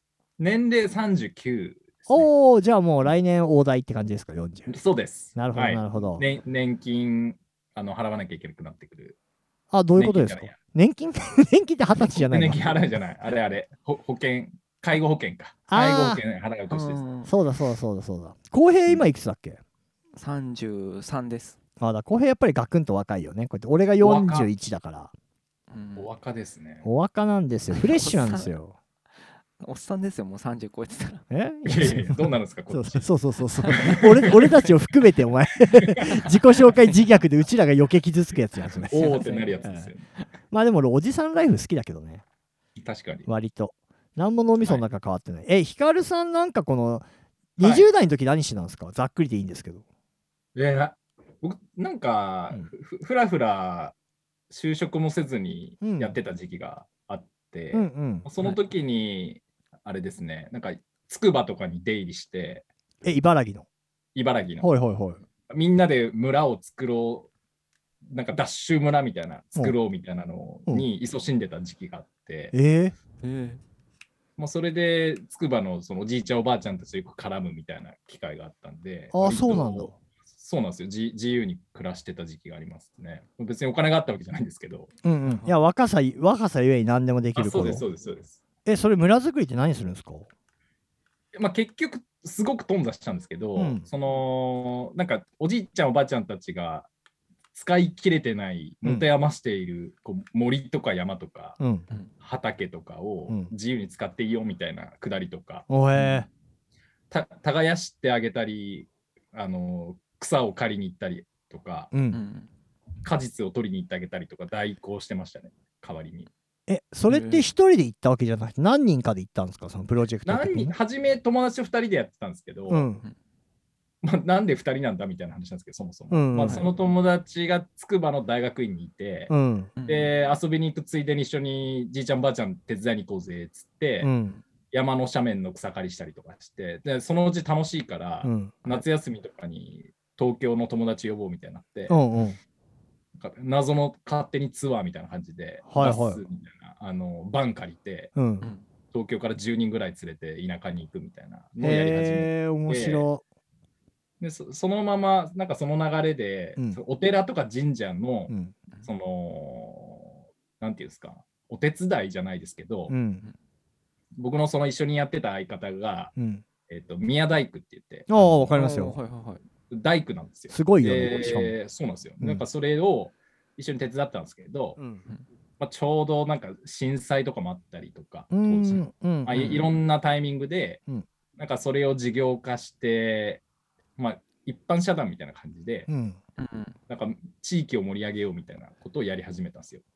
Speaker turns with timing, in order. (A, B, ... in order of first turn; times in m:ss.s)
0:00.4-0:02.3 A
0:02.1-0:04.8 B
0:04.7-0:09.2 A
0:05.3-0:06.3 B
0:09.7-0:12.8 B
0:10.0-0:10.6 A
0:11.9-0:17.0 A
0:15.7-0:16.2 B
0:16.7-0:17.3 C
0:17.2-0:19.6 B
0:20.2-0:21.6 C
0:21.8-0:25.1 B
0:24.0-0:24.5 A
0:25.7-0:26.1 C
0:26.0-0:26.8 A
0:26.8-0:28.8 B
0:27.7-0:28.5 C
0:29.6-0:31.2 C
0:31.3-0:39.9 B
0:31.6-0:33.1 A
0:33.7-0:34.0 C
0:33.7-0:34.6 A
0:38.7-0:40.0 A
0:38.9-0:39.7 C
0:40.5-0:42.2 B
0:42.8-0:43.3 A
0:43.2-0:47.0 B
0:44.6-0:44.9 A
0:47.6-0:49.8 B
0:47.6-0:47.9 A
0:50.6-0:53.9 A
0:54.5-1:02.6 A
0:55.8-0:56.2 B
0:57.7-0:58.3 B
1:03.0-1:03.6 B
1:04.1-1:04.7 A
1:04.6-1:05.2 B
1:05.5-1:07.3 A
1:08.1-1:12.5 A
1:12.5-1:12.9 B
1:13.2-1:13.6 C
1:14.4-1:24.9 A
1:19.1-1:19.9 B
1:25.0-1:27.8 B
1:25.2-1:25.6 C
1:27.3-1:28.4 A
1:28.6-1:30.3 B
1:31.3-1:36.9 A
1:33.6-1:33.9 B
1:37.5-1:41.6 A
1:41.6-1:41.9 B
1:42.2-1:46.2 A
1:45.7-1:46.3 B
1:47.1-1:51.9 A
1:51.9-1:52.2 B
1:52.1-1:52.5 C
1:53.0-1:56.3 A
1:56.7-2:00.8 B
1:57.1-1:57.5 C
2:00.2-2:02.9 A
2:02.7-2:03.0 B
2:04.0-2:09.3 A
2:06.1-2:06.6 B
2:06.4-2:06.7 C
2:09.3-2:09.7 B
2:09.8-2:10.1 C
2:09.8-2:14.1 A
2:14.0-2:14.4 B
2:14.7-2:22.0 A
2:18.2-2:18.6 B
2:21.9-2:22.4 B
2:23.2-2:28.1 A
2:25.7-2:26.2 B
2:28.1-2:28.5 B
2:28.9-2:33.1 A
2:31.6-2:33.2 B
2:34.2-2:38.3 A
2:38.3-2:38.5 B
2:38.8-2:42.9 A
2:42.9-2:43.3 B
2:44.2-2:46.1 A
2:46.2-2:46.4 B
2:46.7-2:48.5 A
2:48.1-2:49.0 B
2:48.5-2:49.4 C
2:49.7-2:54.8 A
2:50.5-2:51.5 B
2:54.8-2:55.0 B
2:55.6-3:00.8 A
2:58.3-2:59.4 B
2:59.3-2:59.7 C
3:01.4-3:03.4 A
3:04.0-3:05.9 A
3:05.9-3:06.2 B
3:06.4-3:06.8 C
3:06.9-3:09.8 A